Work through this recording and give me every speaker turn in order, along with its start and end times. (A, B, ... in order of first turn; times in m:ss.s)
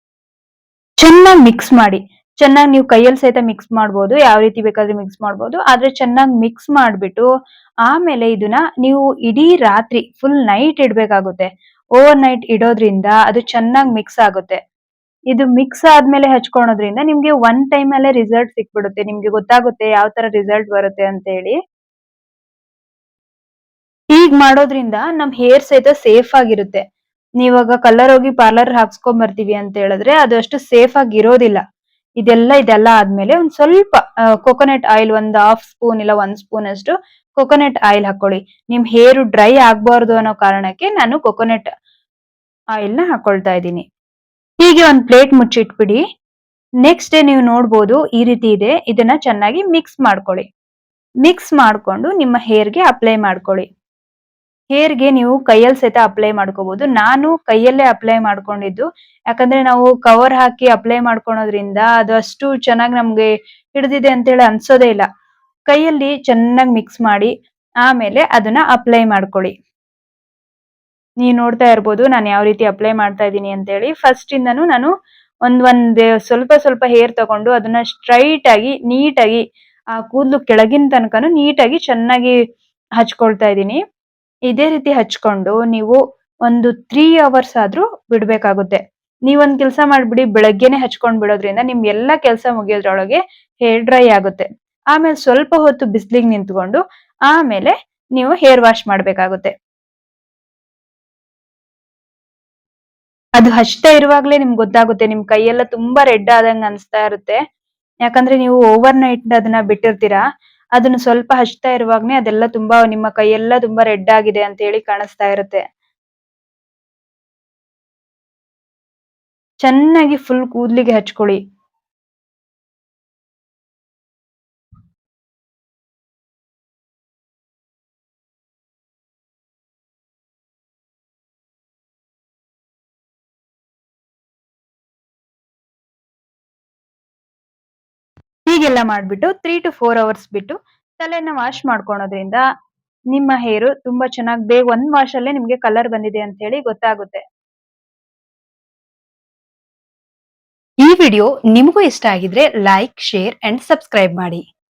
0:01.0-0:07.3 A
0:07.8-0:14.6 A
0:15.3-0:21.6 A
0:24.1-0:26.8 A
0:27.4-0:31.6 A
0:32.2-0:41.7 A
0:42.8-0:43.8 A
0:44.6-0:46.0 A
0:46.8-0:50.4 A
0:51.2-0:53.6 A
0:54.7-1:05.0 A
1:05.7-1:07.3 A
1:07.8-1:09.5 A
1:11.2-1:14.9 A
1:15.4-1:19.4 A
1:20.0-1:22.4 A
1:23.0-1:23.8 A
1:24.5-1:36.8 A
1:37.3-1:39.5 A
1:43.4-1:47.4 A
1:48.0-1:50.2 A
1:50.8-1:55.6 A
1:59.6-2:01.4 A
2:18.5-2:22.4 A
2:23.1-2:27.2 A
2:30.8-2:34.4 A